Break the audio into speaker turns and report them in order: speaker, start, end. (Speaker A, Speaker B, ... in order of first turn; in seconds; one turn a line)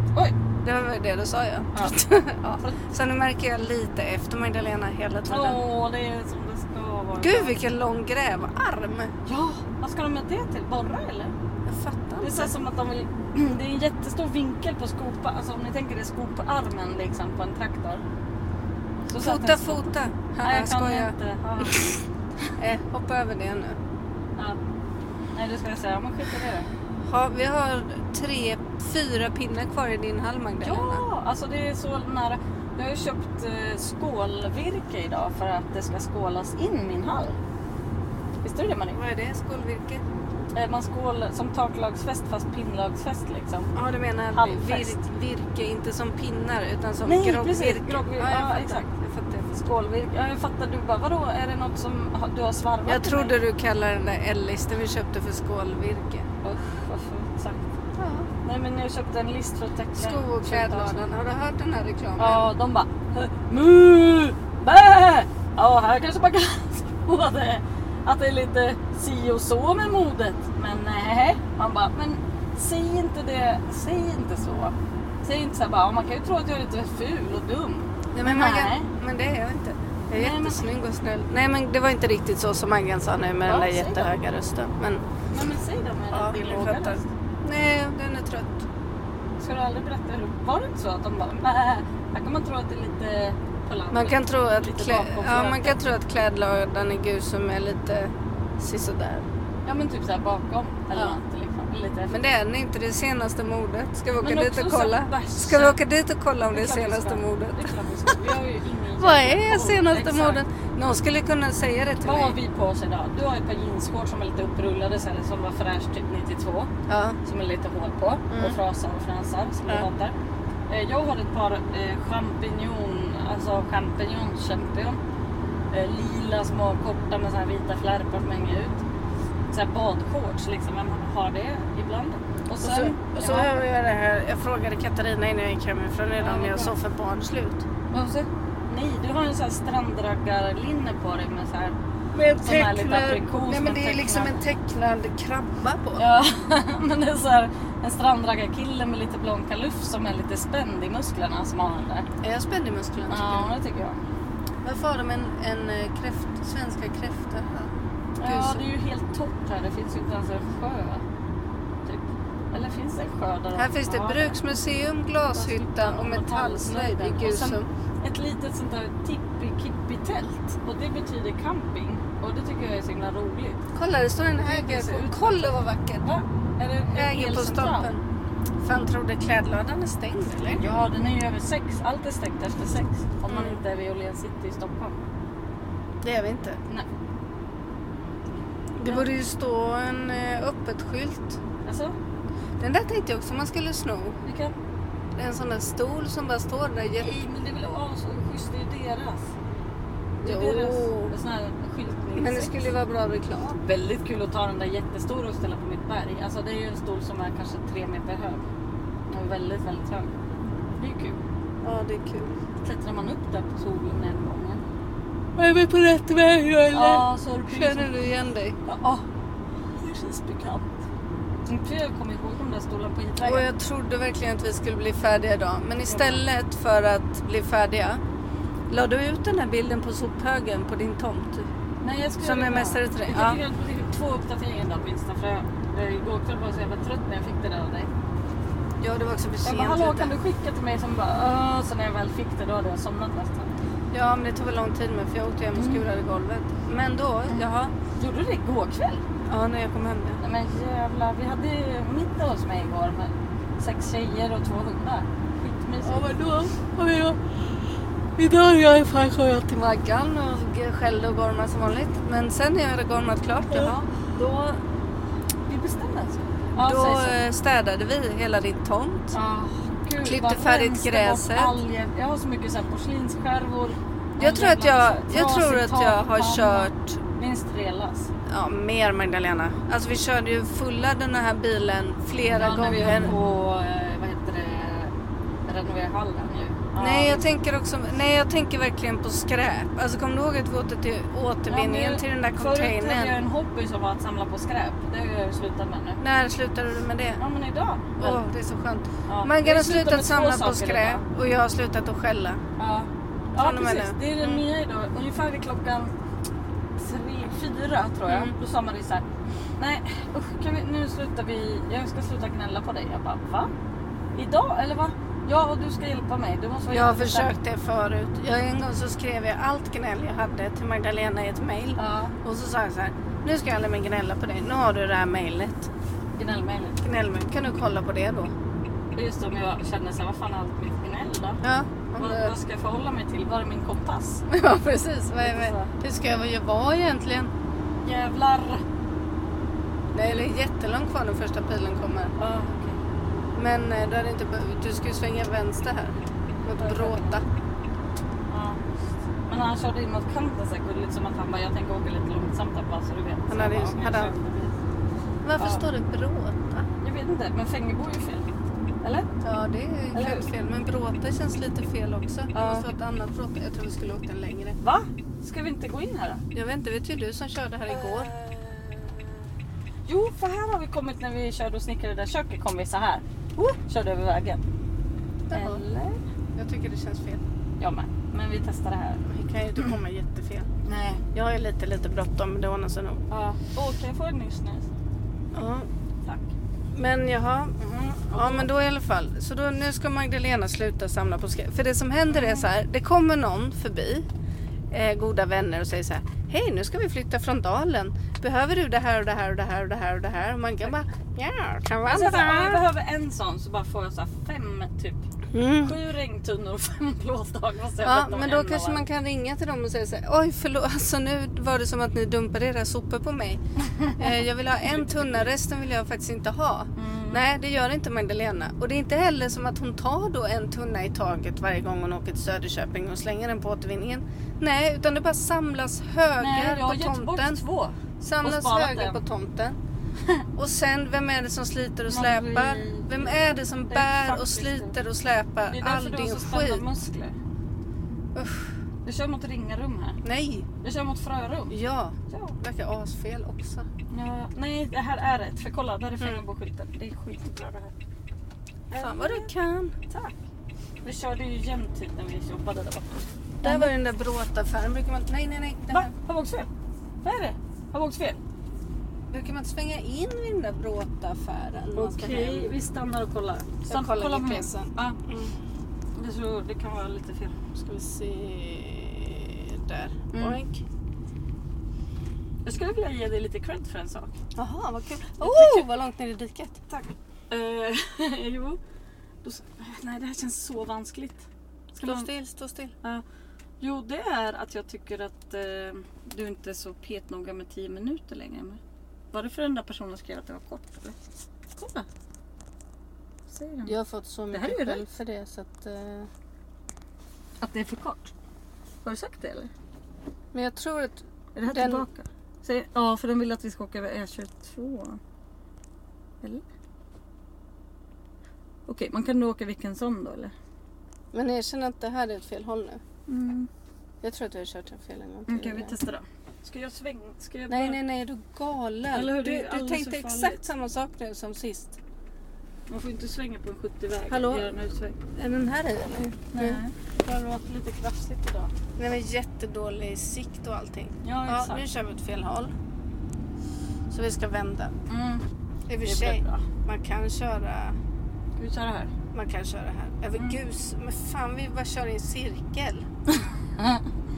Speaker A: 0.6-5.6
Speaker B: 1.7-2.8
Speaker B: 5.3-7.6
Speaker A: 7.2-9.1
Speaker B: 9.2-11.3
Speaker A: 11.6-12.5
Speaker B: 12.2-18.0
Speaker B: 19.1-22.0
Speaker A: 19.2-21.9
Speaker A: 22.6-23.8
Speaker B: 25.3-26.7
Speaker A: 27.1-31.0
Speaker B: 30.6-37.4
Speaker B: 38.4-39.0
Speaker A: 38.9-40.0
Speaker B: 40.5-43.7
Speaker A: 43.7-49.5
Speaker B: 44.3-45.0
Speaker B: 47.0-48.9
Speaker B: 49.5-53.4
Speaker A: 52.9-56.2
Speaker B: 56.4-57.6
Speaker A: 58.0-58.3
Speaker B: 58.4-61.0
Speaker A: 60.0-62.5
Speaker B: 62.2-78.9
Speaker A: 78.1-85.0
Speaker B: 80.1-80.7
Speaker B: 83.4-84.1
Speaker B: 85.3-87.1
Speaker A: 86.1-88.7
Speaker B: 89.4-95.8
Speaker A: 93.9-99.2
Speaker B: 99.7-102.2
Speaker A: 102.1-108.3
Speaker B: 104.2-105.8
Speaker B: 106.5-110.4
Speaker A: 109.0-112.4
Speaker B: 112.0-116.7
Speaker A: 116.9-117.2
Speaker B: 117.2-120.1
Speaker A: 118.3-118.6
Speaker B: 120.7-125.0
Speaker B: 125.7-128.8
Speaker B: 129.5-133.6
Speaker A: 132.6-137.6
Speaker B: 136.2-136.7
Speaker B: 137.9-141.8
Speaker A: 142.1-146.0
Speaker B: 142.4-144.4
Speaker B: 146.0-152.1
Speaker A: 152.2-153.5
Speaker B: 153.1-154.0
Speaker A: 154.6-157.7
Speaker B: 158.2-161.0
Speaker A: 158.2-158.7
Speaker B: 161.8-164.4
Speaker A: 163.5-167.7
Speaker B: 165.3-173.6
Speaker A: 173.7-176.1
Speaker B: 174.4-177.9
Speaker A: 176.9-178.0
Speaker A: 178.6-180.7
Speaker B: 180.5-185.0
Speaker A: 183.3-183.6
Speaker A: 186.0-186.6
Speaker A: 188.8-191.4
Speaker B: 191.6-191.9
Speaker A: 192.6-194.2
Speaker B: 194.2-194.5
Speaker A: 195.1-197.1
Speaker B: 197.0-199.3
Speaker A: 200.2-201.1
Speaker B: 200.2-202.7
Speaker A: 202.2-203.6
Speaker B: 203.6-208.5
Speaker B: 209.1-210.1
Speaker B: 210.8-211.2
Speaker A: 211.6-212.4
Speaker B: 212.6-214.6
Speaker A: 215.4-218.6
Speaker B: 216.7-217.9
Speaker B: 218.6-219.1
Speaker B: 219.8-220.7
Speaker B: 221.5-223.4
Speaker A: 223.2-228.0
Speaker B: 225.8-226.2
Speaker A: 228.7-231.5
Speaker B: 231.8-237.9
Speaker A: 232.2-233.4
Speaker A: 238.8-240.1
Speaker B: 239.4-243.5
Speaker A: 243.9-247.7
Speaker B: 245.5-245.8
Speaker B: 247.9-249.0
Speaker A: 249.2-250.2
Speaker B: 250.2-256.2
Speaker A: 255.8-257.6
Speaker A: 258.2-263.9
Speaker B: 263.5-264.6
Speaker B: 265.5-267.2
Speaker A: 266.6-269.1
Speaker B: 269.1-278.1
Speaker A: 270.0-271.6
Speaker A: 274.2-277.0
Speaker A: 278.3-283.1
Speaker B: 282.3-284.9
Speaker B: 285.5-287.2
Speaker A: 286.8-293.1
Speaker B: 291.5-296.0
Speaker A: 296.0-297.2
Speaker B: 297.2-298.2
Speaker A: 298.0-302.4
Speaker B: 299.1-301.0
Speaker B: 302.6-305.9
Speaker A: 303.4-304.4
Speaker B: 306.8-309.0
Speaker A: 308.1-308.3
Speaker B: 309.6-313.5
Speaker B: 314.1-317.3
Speaker A: 316.7-325.7
Speaker B: 321.8-322.1
Speaker B: 326.1-326.8
Speaker A: 326.8-328.3
Speaker B: 328.9-331.4
Speaker A: 331.4-332.3
Speaker B: 332.0-334.2
Speaker A: 334.3-337.3
Speaker B: 335.2-335.7
Speaker B: 337.8-338.6
Speaker A: 339.9-342.1
Speaker B: 342.2-342.8
Speaker A: 343.3-347.2
Speaker B: 346.6-347.2
Speaker B: 348.3-348.6
Speaker B: 349.3-354.5
Speaker A: 353.3-354.1
Speaker A: 355.2-356.7
Speaker B: 355.4-355.6
Speaker B: 356.8-358.3
Speaker B: 358.8-359.1
Speaker A: 359.2-364.6
Speaker B: 359.9-360.3
Speaker B: 362.3-362.7
Speaker B: 364.6-366.2
Speaker A: 366.3-368.1
Speaker B: 367.7-369.3
Speaker B: 369.9-374.4
Speaker A: 375.3-375.6
Speaker B: 375.3-376.0
Speaker A: 376.3-377.2
Speaker B: 377.6-379.1
Speaker A: 379.1-380.5
Speaker B: 380.6-381.0
Speaker A: 381.1-383.0
Speaker B: 383.1-384.7
Speaker A: 385.3-385.7
Speaker B: 386.0-386.3
Speaker A: 386.7-387.6
Speaker B: 387.6-388.5
Speaker A: 388.1-394.1
Speaker B: 392.1-392.5
Speaker A: 394.7-402.6
Speaker B: 401.9-405.0
Speaker A: 405.3-405.8
Speaker B: 405.6-408.8
Speaker A: 407.8-413.4
Speaker B: 413.6-415.3
Speaker A: 414.0-427.4
Speaker B: 416.8-417.2
Speaker B: 426.2-429.0
Speaker A: 428.0-429.6
Speaker A: 430.4-436.7
Speaker B: 431.9-434.8
Speaker B: 435.5-437.1
Speaker A: 438.1-438.5
Speaker B: 438.8-440.0
Speaker A: 440.0-440.5
Speaker B: 440.6-441.5
Speaker A: 441.5-443.7
Speaker B: 442.1-442.4
Speaker B: 443.9-447.7
Speaker B: 448.7-449.3
Speaker A: 448.7-449.8
Speaker B: 449.9-450.2
Speaker B: 450.8-453.7
Speaker A: 453.4-455.9
Speaker B: 455.7-456.5
Speaker B: 457.0-458.2
Speaker A: 459.1-462.5
Speaker B: 461.7-465.0
Speaker A: 463.7-465.3
Speaker B: 465.9-467.4
Speaker A: 467.6-470.6
Speaker B: 470.1-470.4
Speaker B: 472.4-474.1
Speaker A: 474.3-476.6
Speaker B: 475.2-475.7
Speaker B: 476.7-478.6
Speaker B: 479.2-482.1
Speaker A: 481.8-482.7
Speaker B: 483.6-488.6
Speaker B: 489.1-490.9
Speaker B: 491.6-491.9
Speaker B: 493.3-493.7
Speaker A: 493.6-496.1
Speaker B: 494.3-494.9
Speaker B: 497.4-498.1
Speaker B: 498.8-499.5
Speaker A: 500.3-501.9
Speaker B: 501.3-505.0
Speaker B: 508.7-510.3
Speaker A: 511.1-512.8
Speaker B: 513.1-513.5
Speaker A: 514.0-515.7
Speaker B: 515.3-517.8
Speaker A: 517.5-521.8
Speaker B: 518.9-520.5
Speaker B: 522.7-525.0
Speaker A: 524.1-524.5
Speaker A: 525.1-526.6
Speaker B: 526.3-528.5
Speaker A: 528.8-532.5
Speaker B: 531.0-531.6
Speaker A: 533.9-534.7
Speaker B: 534.9-535.2
Speaker A: 535.7-537.8
Speaker B: 535.8-536.5
Speaker B: 538.4-538.9
Speaker A: 539.1-542.9
Speaker B: 543.1-543.9